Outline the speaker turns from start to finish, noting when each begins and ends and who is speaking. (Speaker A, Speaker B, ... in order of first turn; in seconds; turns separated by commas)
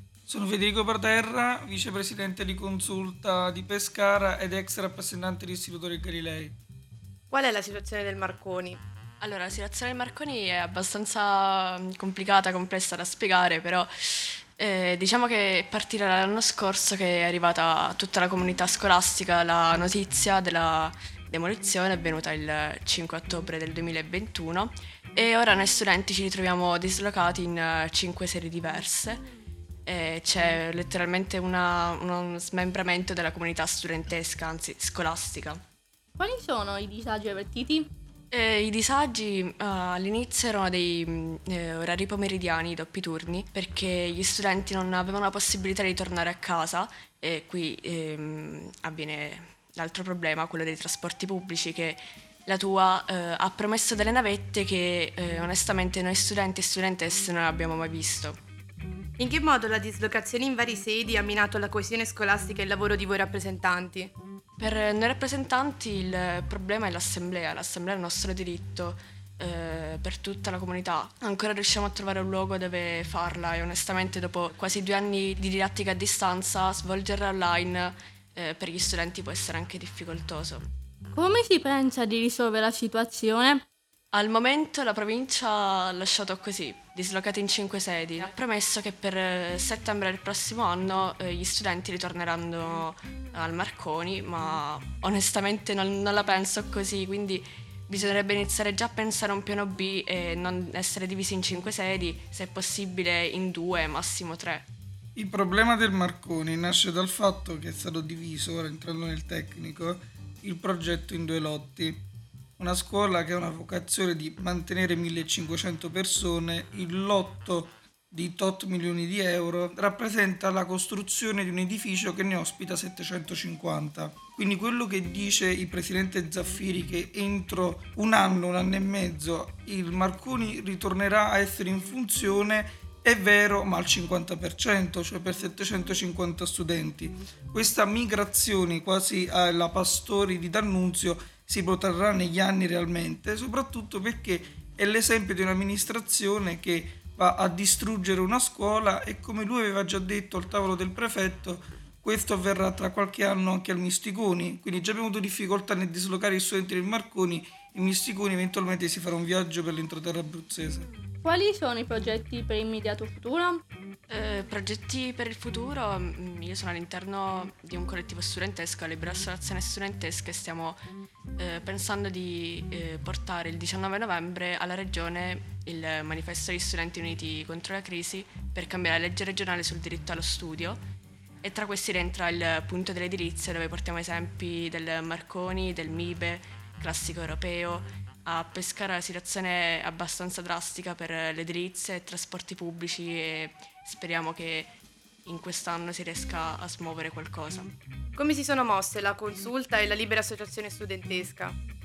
Speaker A: 0.3-6.6, Speaker B: 7.3-8.8, Speaker C: 9.2-29.2, Speaker C: 29.9-35.6, Speaker D: 36.2-37.9, Speaker C: 38.3-58.4, Speaker B: 59.2-64.1, Speaker C: 64.6-80.6, Speaker D: 81.1-83.6, Speaker C: 84.1-104.7, Speaker A: 105.2-112.0, Speaker A: 112.6-160.9, Speaker D: 161.2-163.6, Speaker C: 164.1-170.8, Speaker C: 171.4-180.8, Speaker C: 181.4-194.7, Speaker C: 195.2-197.7, Speaker B: 198.2-201.6